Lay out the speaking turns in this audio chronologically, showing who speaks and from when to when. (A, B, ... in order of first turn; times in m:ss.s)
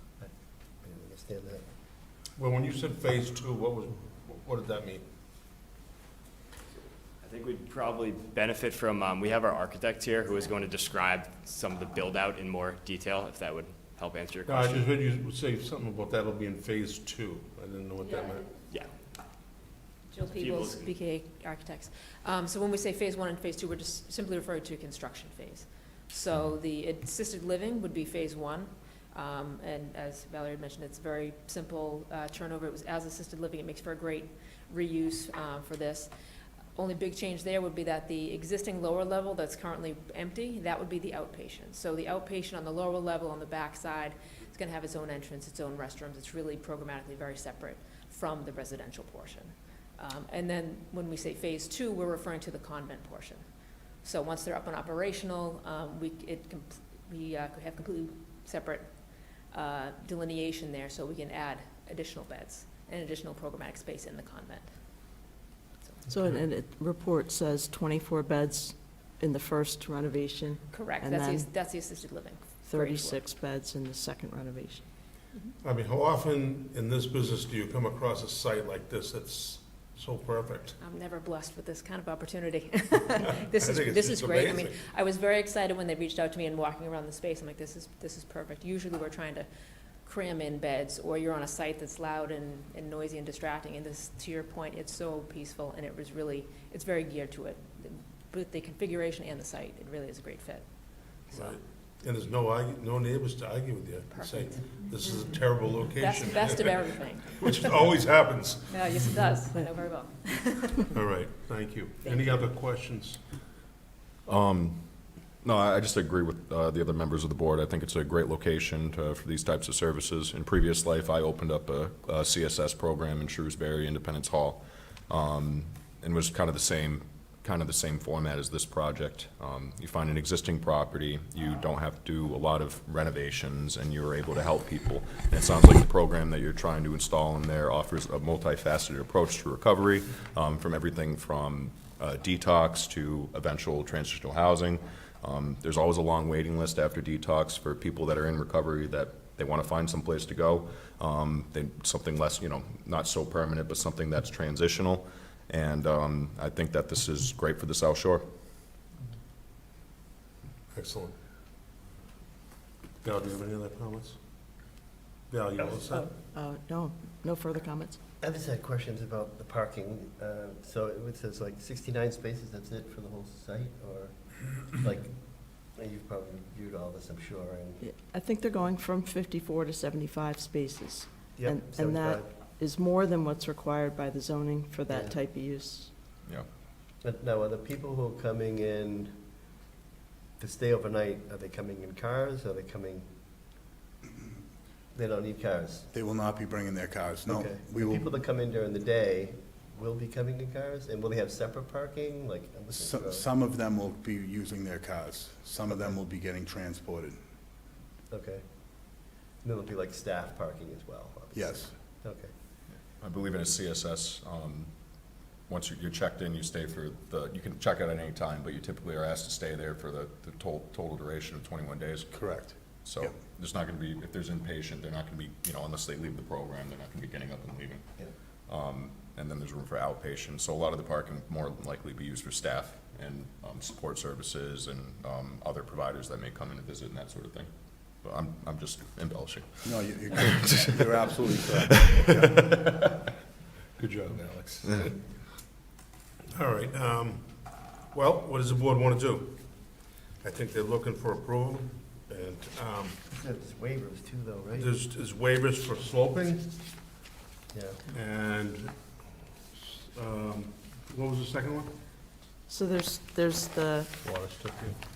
0:00.2-0:01.6 A
0:02.4-0:05.0 B
0:07.2-0:14.9 C
0:14.4-0:18.5 B
0:18.0-0:18.6 D
0:20.1-0:36.1 D
0:20.3-0:20.9 C
0:36.7-0:53.4 D
0:54.0-0:58.9 D
0:59.5-1:04.7 D
1:06.1-1:11.5 E
1:10.7-1:13.2 D
1:12.6-1:14.9 E
1:15.6-1:20.8 B
1:20.8-1:29.5 D
1:23.2-1:24.8 B
1:30.0-1:41.6 D
1:41.3-1:46.8 B
1:44.1-1:45.4 D
1:45.9-1:47.7 D
1:47.4-1:48.8 B
1:48.7-1:50.8 D
1:50.9-1:53.2 B
1:52.0-1:52.5 D
1:54.2-2:38.2 F
2:40.7-2:41.1 B
2:43.0-2:44.2 B
2:45.3-2:46.1 B
2:45.9-2:48.0 E
2:48.2-2:57.8 A
2:57.8-3:05.9 E
3:01.3-3:02.3 A
3:04.9-3:05.2 A
3:07.0-3:09.2 A
3:10.4-3:13.1 A
3:14.9-3:15.9 A
3:15.9-3:18.1 G
3:17.3-3:23.2 A
3:22.7-3:27.2 G
3:28.1-3:32.3 A
3:31.3-3:31.7 G
3:32.7-3:47.9 F
3:42.1-3:43.1 G
3:48.5-4:01.1 F
3:59.6-4:01.9 G
4:03.8-4:05.1 B
4:06.3-4:13.0 B
4:13.1-4:14.7 A
4:14.6-4:16.6 B
4:17.5-4:17.8 A
4:17.9-4:18.8 B
4:19.5-4:21.7 B
4:22.5-4:23.9 E
4:24.0-4:24.8 B